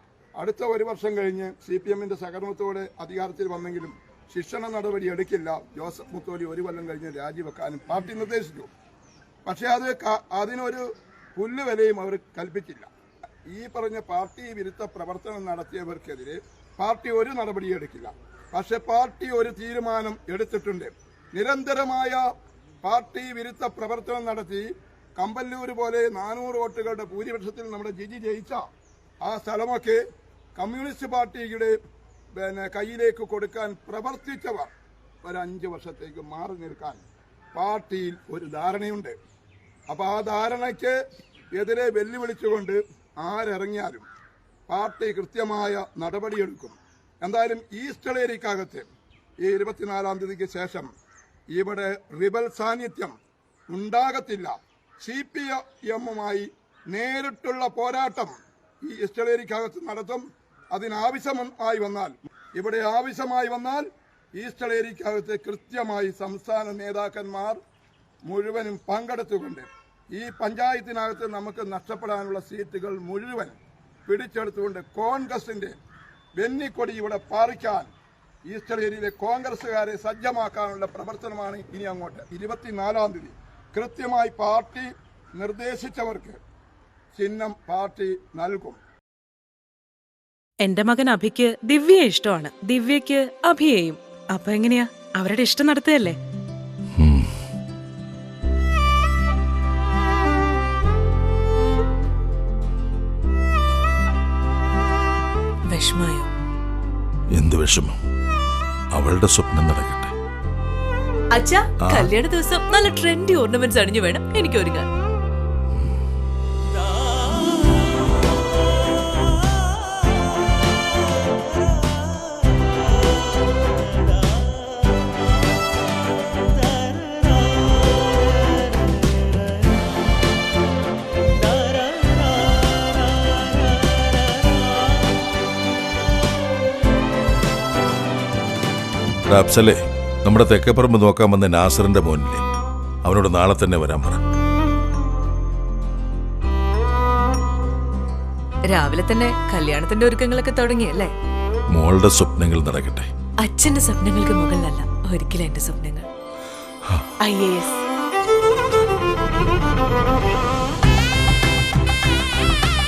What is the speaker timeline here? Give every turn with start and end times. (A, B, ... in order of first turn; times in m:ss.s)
0:00.4-0:08.7 A
0:09.4-0:10.8 A
0:11.4-0:12.9 A
0:13.5-0:22.2 A
0:22.8-0:28.6 A
0:29.2-0:30.0 A
0:30.6-0:31.8 A
0:32.3-0:34.7 A
0:35.2-0:39.1 A
0:39.9-0:41.0 A
0:41.5-0:44.0 A
0:44.7-0:48.9 A
0:49.4-0:50.9 A
0:51.5-0:53.1 A
0:53.7-1:07.6 A
1:08.2-1:15.8 A
1:16.4-1:17.9 A
1:18.5-1:26.4 A
1:27.1-1:28.8 A
1:30.6-1:36.2 B
1:37.0-1:37.3 C
1:45.7-1:46.3 D
1:47.3-1:47.9 C
1:48.9-1:50.1 C
1:51.3-1:54.9 D
1:51.8-1:52.1 C
2:19.3-2:22.5 C
2:23.0-2:24.2 C
2:28.7-2:31.1 D
2:31.7-2:33.1 C
2:33.4-2:36.0 D
2:37.2-2:37.8 D